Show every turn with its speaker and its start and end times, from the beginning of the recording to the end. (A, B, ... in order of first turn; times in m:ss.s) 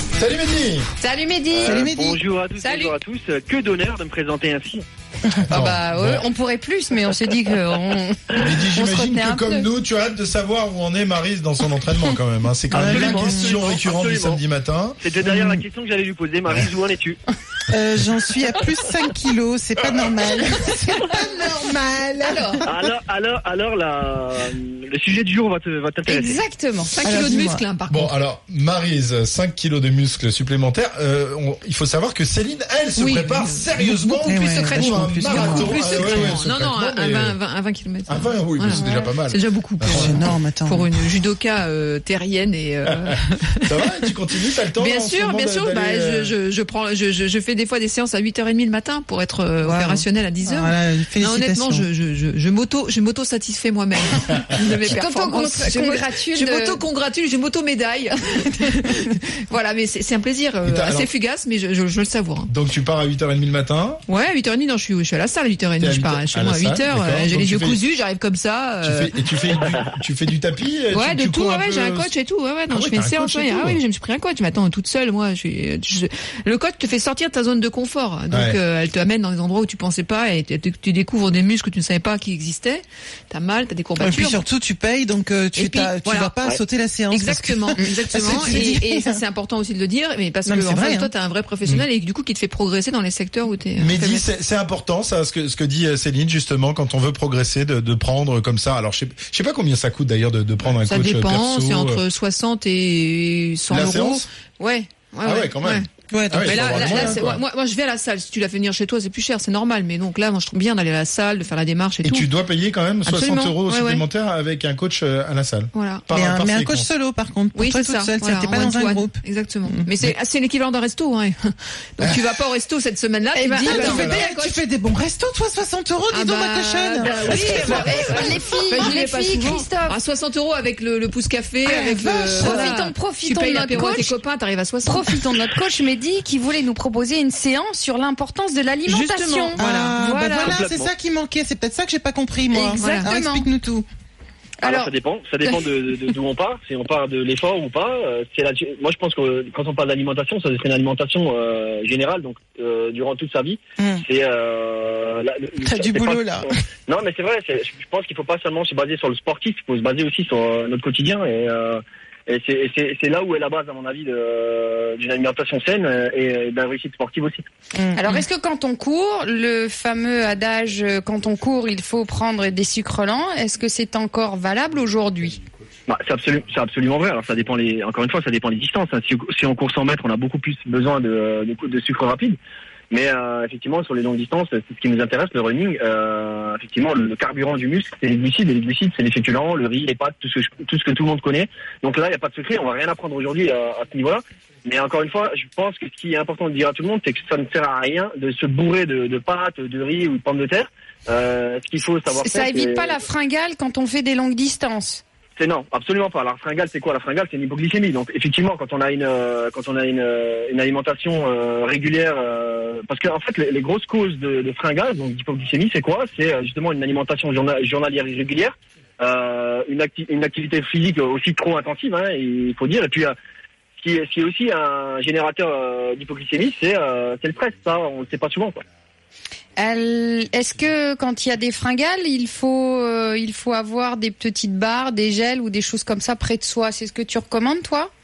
0:00.2-0:00.9 A
0:01.0-0:01.8 B
0:01.5-0:04.8 C
0:01.6-0:02.2 D
0:02.6-0:02.9 B
0:05.4-0:06.2 A
0:05.5-0:09.7 B
0:08.4-0:15.0 A
0:12.7-0:13.6 D
0:12.7-0:14.4 C
0:15.0-0:17.2 C
0:15.2-0:15.6 D
0:17.7-0:22.9 D
0:22.3-0:22.6 B
0:22.6-0:26.4 C
0:26.1-0:27.0 B
0:26.8-0:28.1 E
0:27.0-0:27.6 D
0:27.9-0:37.4 A
0:33.0-0:43.9 E
0:34.2-0:36.3 D
0:38.1-0:40.2 A
0:39.9-0:40.8 D
0:42.9-0:43.2 A
0:43.7-0:46.4 A
0:44.7-1:02.5 E
0:49.6-0:51.9 D
0:54.9-0:56.8 B
1:00.6-1:01.1 A
1:02.5-1:04.0 A
1:04.1-1:09.7 E
1:05.8-1:07.8 A
1:08.8-1:12.1 A
1:10.9-1:24.4 E
1:12.7-1:13.8 A
1:18.3-1:18.6 A
1:24.0-1:29.2 D
1:25.6-1:26.4 E
1:27.1-1:34.2 E
1:30.4-1:31.1 D
1:33.8-1:42.0 A
1:40.7-1:45.9 E
1:43.7-1:44.3 A
1:43.8-1:44.2 D
1:45.2-1:47.4 A
1:46.1-1:47.3 D
1:46.4-1:52.3 E
1:52.0-1:56.9 A
1:53.0-1:54.0 E
1:55.7-1:56.0 E
1:56.1-1:59.8 D
1:57.6-2:04.6 E
2:03.3-2:04.1 B
2:03.6-2:08.0 D
2:03.7-2:04.3 A
2:06.1-2:15.2 E
2:07.4-2:08.2 A
2:08.0-2:10.0 B
2:11.7-2:14.2 B
2:11.7-2:12.8 D
2:14.8-2:20.6 B
2:18.9-2:19.9 E
2:19.6-2:23.8 D
2:20.4-2:20.9 C
2:22.5-2:23.5 B
2:22.8-2:23.1 E
2:24.6-2:24.9 B
2:24.6-2:47.4 C
2:33.8-2:34.0 D
2:35.6-2:36.6 D
2:47.9-2:55.4 B
2:55.9-3:02.4 C
3:02.9-3:23.0 C
3:22.1-3:25.0 B
3:25.4-3:43.2 C
3:43.8-3:48.6 C
3:49.6-3:57.9 B